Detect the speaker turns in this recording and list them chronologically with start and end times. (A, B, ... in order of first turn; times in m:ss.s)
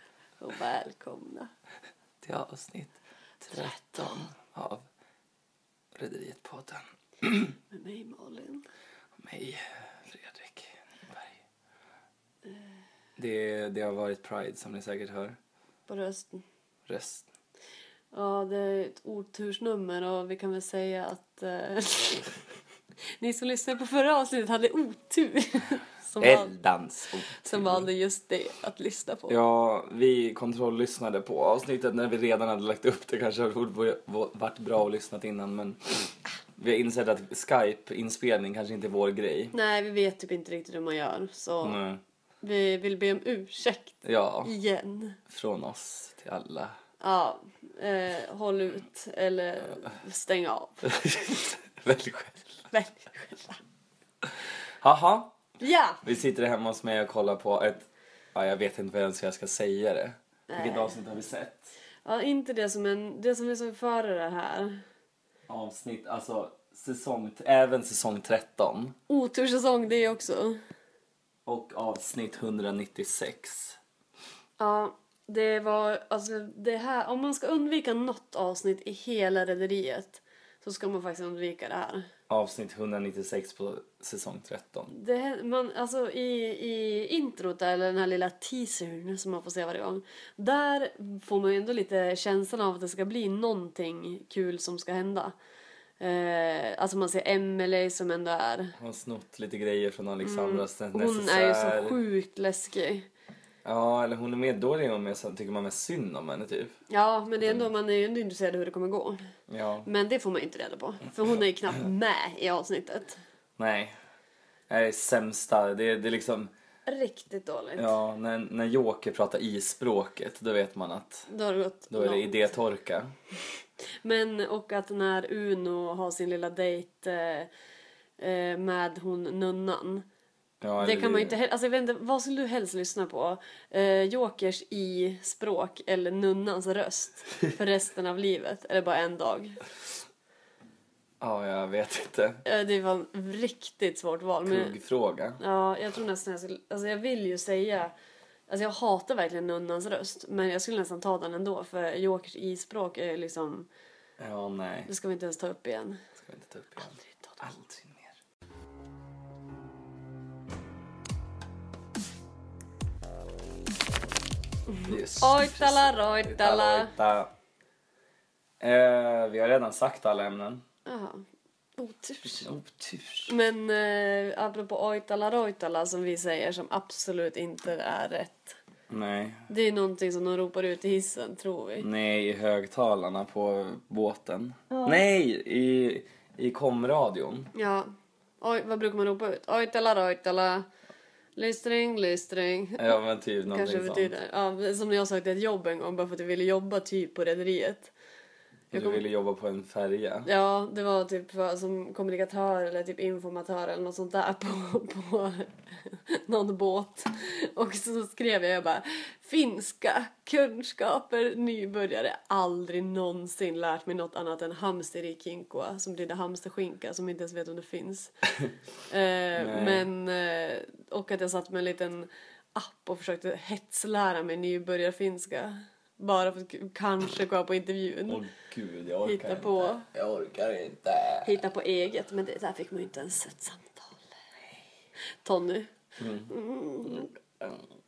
0:00.4-0:01.5 A
0:02.2-0:04.8 B
0:03.5-0:04.0 A
0:05.9-0:07.5 B
0:07.7-0:08.6 A
0:09.2-0:11.4 B
0:13.2-0:15.4 B
0:15.9-0:16.4 A
0:16.9-0:17.3 B
0:18.1-0:22.3 A
0:23.2-0:26.5 A
0:26.2-0:27.9 B
0:27.4-0:29.4 A
0:29.3-0:35.8 B
0:36.6-0:39.5 B
0:39.5-0:41.8 A
0:41.6-0:42.0 B
0:42.4-0:45.2 A
0:44.0-0:44.5 B
0:45.3-0:46.8 B
0:47.0-0:50.8 A
0:50.8-0:52.7 B
0:52.7-0:53.6 A
0:54.8-0:55.4 B
0:55.6-0:56.0 A
0:56.0-1:01.7 B
1:00.5-1:01.0 A
1:02.0-1:04.8 A
1:05.5-1:08.9 B
1:09.1-1:10.6 A
1:11.4-1:13.8 B
1:14.6-1:22.0 A
1:22.3-1:24.9 B
1:24.9-1:35.3 A
1:36.0-1:38.7 A
1:38.8-1:42.0 B
1:40.2-1:43.1 A
1:43.6-1:46.7 B
1:46.9-1:49.2 A
1:49.5-1:49.9 B
1:49.8-1:53.2 A
1:53.6-1:54.0 B
1:54.7-1:56.5 B
1:56.8-1:57.9 A
1:57.8-2:01.3 B
2:01.3-2:02.5 A
2:01.9-2:03.1 B
2:04.0-2:07.5 A
2:08.2-2:10.0 A
2:10.6-2:11.4 B
2:10.8-2:19.6 A
2:21.2-2:22.4 B
2:22.4-2:24.7 A
2:24.4-2:25.4 B
2:25.4-2:27.9 A
2:28.5-2:33.7 A
2:34.2-2:34.9 B
2:34.9-2:36.0 A
2:36.2-2:38.2 B
2:36.8-2:37.4 A
2:44.7-2:46.9 A
2:44.9-2:47.3 B
2:48.6-2:50.6 B
2:50.8-2:51.2 A
2:51.8-2:52.5 A
2:52.2-2:53.3 B
2:53.3-2:58.6 A
2:58.9-2:59.4 B
2:59.5-3:01.9 A
3:01.8-3:07.5 B
3:04.7-3:05.0 A
3:07.5-3:07.9 A
3:08.4-3:10.7 A
3:11.4-3:13.0 A
3:12.8-3:14.1 B
3:13.5-3:17.9 A
3:18.7-3:19.0 A
3:18.7-3:20.3 B
3:20.2-3:38.2 A
3:38.9-3:48.2 A
3:39.3-3:39.9 B
3:48.1-3:51.4 B
3:49.0-3:49.8 A
3:51.2-3:54.0 A
3:55.2-3:55.7 A
3:56.0-3:56.3 B
3:56.3-3:57.1 A
3:56.8-3:57.6 B